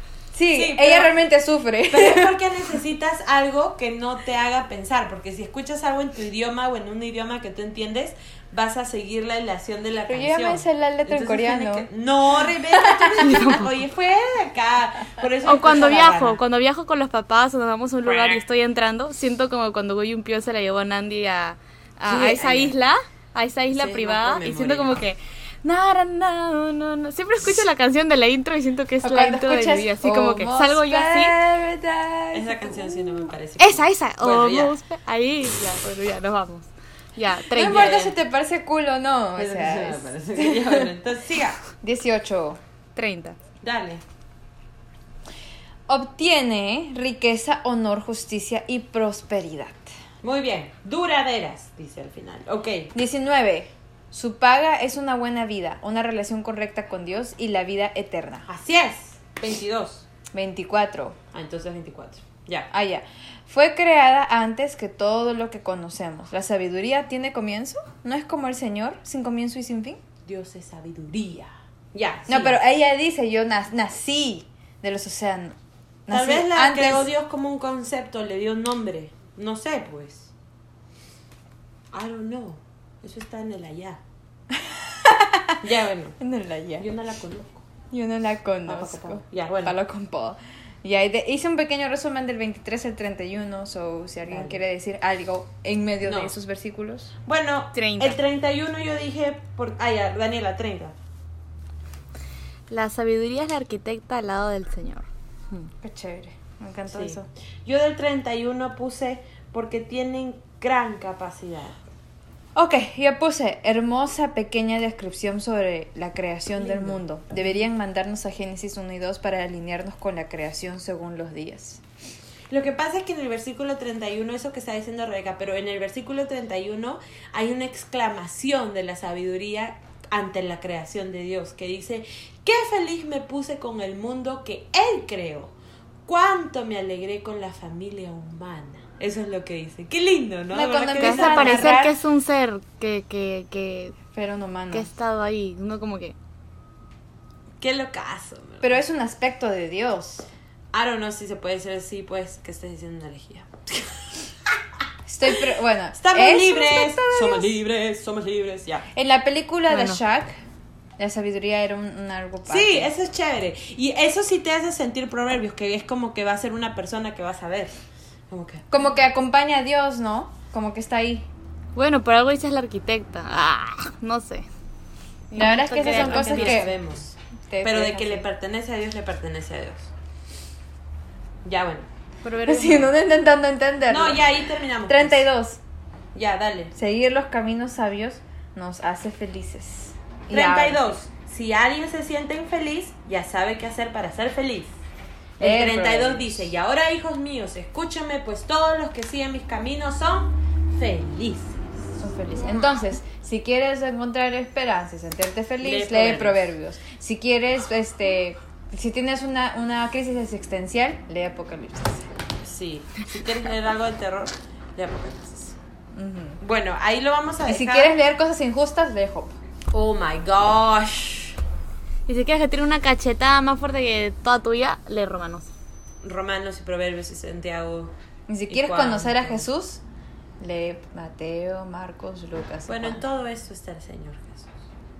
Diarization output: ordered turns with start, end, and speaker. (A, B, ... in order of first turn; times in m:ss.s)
0:00.3-0:02.4 A
0:00.5-0:01.2 B
0:01.9-0:16.4 B
0:10.1-0:11.9 A
0:12.7-0:13.5 A
0:13.2-0:13.7 C
0:15.4-0:31.3 C
0:18.0-0:18.4 B
0:22.0-0:22.8 B
0:23.7-0:25.0 B
0:29.0-0:33.3 A
0:32.3-0:34.8 B
0:33.6-0:38.1 C
0:37.5-0:40.9 A
0:37.6-0:38.0 B
0:39.4-0:41.6 B
0:41.8-0:42.6 A
0:43.0-0:43.4 C
0:43.6-0:44.0 B
0:45.9-0:49.9 A
0:50.2-0:52.9 B
0:52.9-0:58.4 A
0:58.4-1:00.0 B
1:00.3-1:01.2 A
1:01.3-1:02.7 B
1:02.7-1:10.0 A
1:10.2-1:12.6 B
1:12.3-1:17.1 A
1:16.1-1:20.3 B
1:21.9-1:24.0 B
1:24.7-1:25.6 A
1:25.6-1:26.2 B
1:26.2-1:26.9 A
1:26.8-1:27.6 B
1:27.9-1:37.1 A
1:28.6-1:29.8 B
1:34.2-1:34.6 B
1:36.0-1:36.3 B
1:37.2-1:40.9 B
1:37.7-1:38.2 C
1:42.7-1:45.7 C
1:45.8-1:47.3 A
1:46.8-1:51.8 B
1:52.5-2:01.8 A
1:56.6-1:57.6 B
2:02.5-2:15.5 B
2:16.1-2:21.7 B
2:20.5-2:22.0 A
2:21.0-2:24.0 C
2:24.1-2:24.9 A
2:24.7-2:26.2 C
2:27.6-2:28.8 B
2:28.6-2:30.3 A
2:30.7-2:34.2 B
2:35.1-2:37.5 A
2:35.9-2:38.9 B
2:38.9-2:40.4 A
2:39.7-2:40.0 C
2:41.0-2:42.9 A
2:42.4-2:47.7 B
2:48.3-2:48.6 B
2:48.7-2:51.3 A
2:51.7-2:54.4 C
2:55.3-2:56.7 C
2:55.3-2:56.7 A
2:55.7-2:59.9 B
2:57.5-2:58.2 A
3:01.4-3:01.9 B
3:02.2-3:02.9 C
3:02.4-3:05.6 A
3:03.9-3:05.3 B
3:06.1-3:06.7 B
3:06.7-3:10.8 A
3:10.3-3:14.7 B
3:15.4-3:16.5 A
3:15.4-3:21.7 B
3:22.0-3:32.1 A
3:25.6-3:26.5 B
3:32.4-3:35.6 B
3:35.9-3:36.4 A
3:36.4-3:37.9 B
3:37.4-3:39.4 A
3:39.7-3:41.4 B
3:42.1-3:45.5 C
3:46.0-3:47.9 B
3:48.3-3:49.8 A
3:48.5-3:49.5 B
3:50.4-3:53.0 A
3:52.7-3:54.5 B